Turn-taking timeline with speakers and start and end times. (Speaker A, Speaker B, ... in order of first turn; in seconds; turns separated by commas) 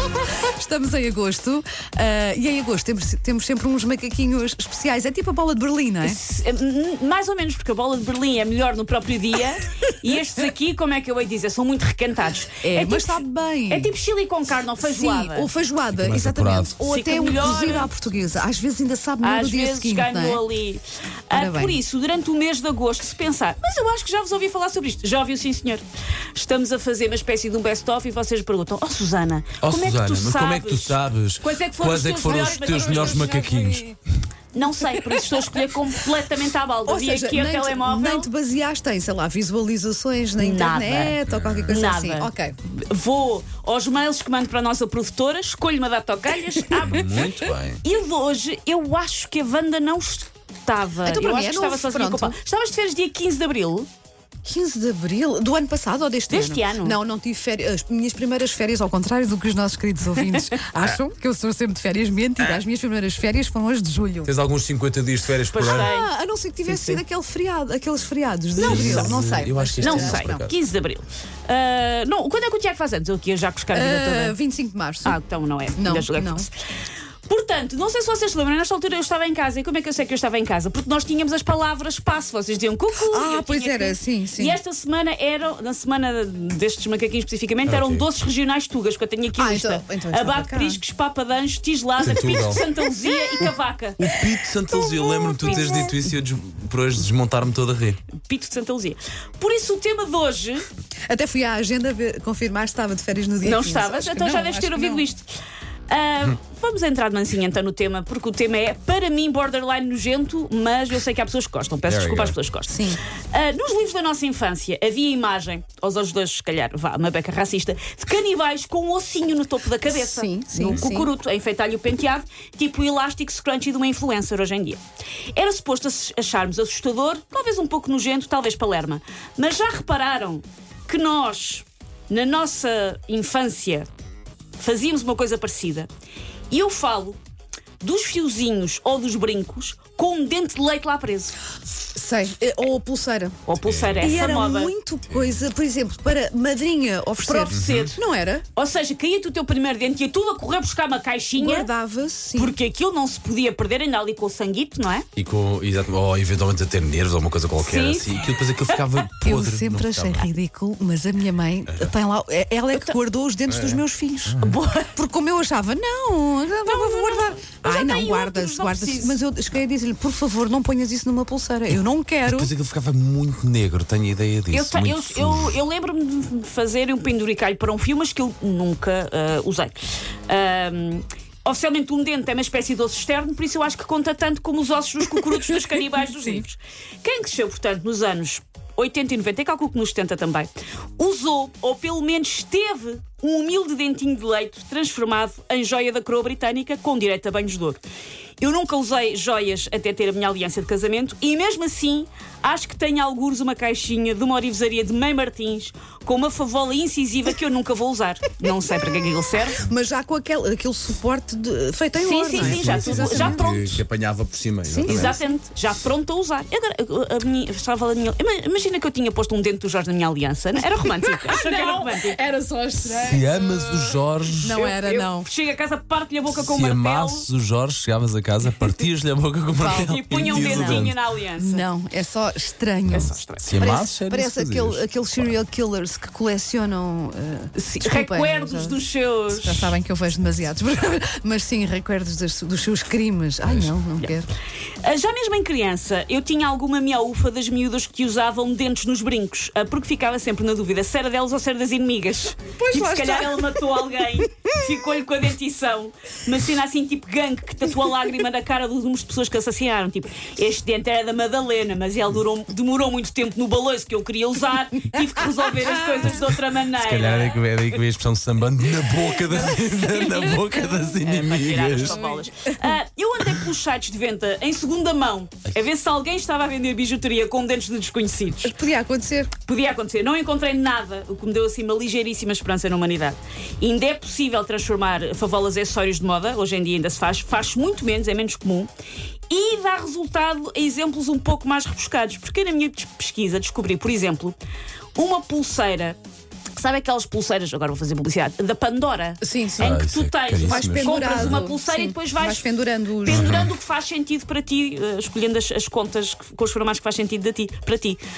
Speaker A: 0.6-6.2, Speaker B: 6.0-15.5, Speaker A: 12.6-13.9, Speaker A: 14.8-20.4, Speaker C: 15.9-17.8, Speaker B: 16.8-17.9, Speaker B: 19.2-25.8, Speaker A: 21.3-21.8, Speaker B: 26.4-33.3, Speaker C: 29.6-34.0, Speaker A: 32.2-33.9, Speaker B: 34.5-38.3, Speaker A: 34.6-35.6, Speaker A: 36.9-42.6, Speaker B: 40.4-41.2, Speaker C: 41.3-41.8, Speaker B: 41.7-47.2, Speaker C: 46.8-47.8, Speaker B: 47.8-53.9, Speaker A: 51.0-52.4, Speaker A: 54.5-64.3, Speaker B: 56.3-57.0, Speaker C: 64.2-65.9, Speaker B: 65.5-66.1, Speaker A: 65.7-70.5, Speaker B: 68.6-69.1, Speaker C: 68.6-70.5, Speaker B: 69.8-74.3, Speaker A: 73.7-75.2, Speaker B: 75.0-76.5, Speaker A: 75.8-76.5, Speaker B: 77.3-94.0, Speaker A: 83.0-84.6, Speaker C: 87.7-88.1, Speaker A: 89.3-90.8, Speaker C: 92.0-92.6, Speaker A: 92.4-92.8, Speaker C: 93.4-98.0, Speaker A: 94.0-96.0, Speaker B: 95.4-95.9, Speaker B: 98.3-100.7, Speaker A: 101.1-105.1, Speaker B: 103.4-105.3, Speaker B: 105.9-124.8, Speaker C: 111.9-112.4, Speaker A: 112.7-113.0, Speaker A: 119.8-121.1, Speaker B: 125.3-133.9, Speaker B: 134.6-135.9, Speaker B: 136.5-137.2, Speaker B: 137.8-141.4, Speaker A: 141.9-143.4, Speaker B: 143.5-144.7, Speaker C: 143.6-144.3, Speaker A: 144.0-148.4, Speaker C: 145.0-145.4, Speaker B: 147.2-148.0, Speaker C: 147.5-147.9, Speaker B: 148.6-151.7, Speaker A: 151.3-152.6, Speaker B: 152.3-155.1, Speaker C: 155.2-160.3, Speaker B: 157.6-158.8, Speaker A: 159.2-164.4, Speaker C: 163.5-164.6, Speaker B: 164.4-164.9, Speaker A: 164.9-172.5, Speaker B: 166.6-169.2, Speaker C: 172.2-175.6, Speaker B: 174.5-197.8, Speaker A: 185.2-185.6, Speaker B: 198.4-209.6, Speaker A: 209.6-213.6, Speaker B: 212.0-213.8, Speaker C: 212.4-215.2, Speaker A: 214.7-215.2, Speaker B: 214.8-222.2, Speaker A: 220.8-225.3, Speaker C: 223.0-224.6, Speaker B: 224.4-227.3, Speaker C: 226.4-231.0, Speaker A: 229.6-244.3, Speaker B: 229.7-231.7, Speaker B: 232.9-233.6, Speaker C: 232.9-235.3, Speaker B: 237.6-239.7, Speaker C: 243.4-243.7, Speaker B: 244.8-267.4, Speaker A: 252.6-254.7, Speaker A: 265.0-266.2, Speaker C: 266.7-272.0, Speaker B: 269.2-278.5, Speaker A: 271.8-272.6, Speaker A: 278.4-279.3, Speaker B: 279.4-288.7, Speaker B: 289.3-294.4, Speaker B: 295.0-296.0, Speaker B: 296.5-302.5, Speaker A: 299.2-299.8, Speaker C: 299.6-301.4, Speaker A: 300.4-303.4, Speaker B: 303.0-308.0, Speaker C: 303.1-303.5